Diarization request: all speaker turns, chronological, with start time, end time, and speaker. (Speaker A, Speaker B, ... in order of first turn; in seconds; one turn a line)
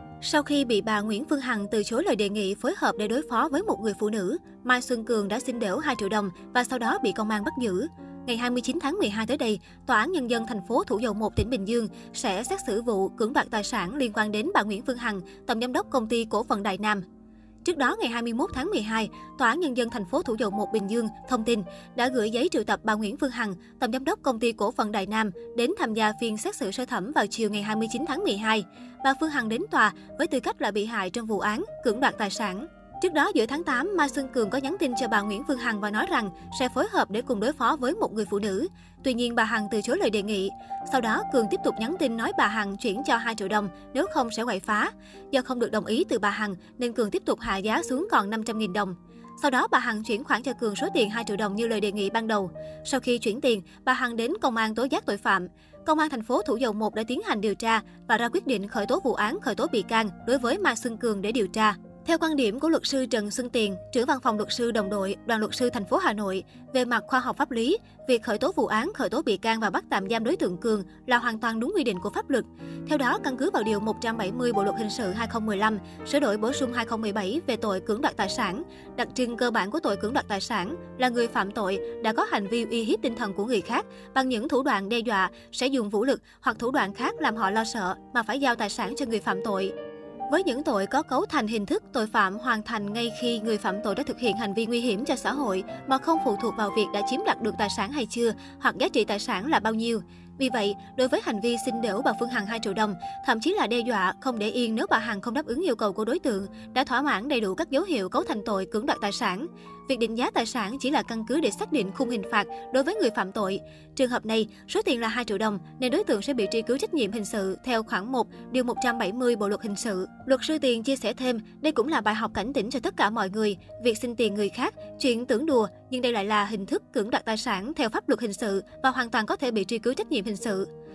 Speaker A: 0.2-17.0
Speaker A: 17.6-89.7
Speaker A: 90.3-130.7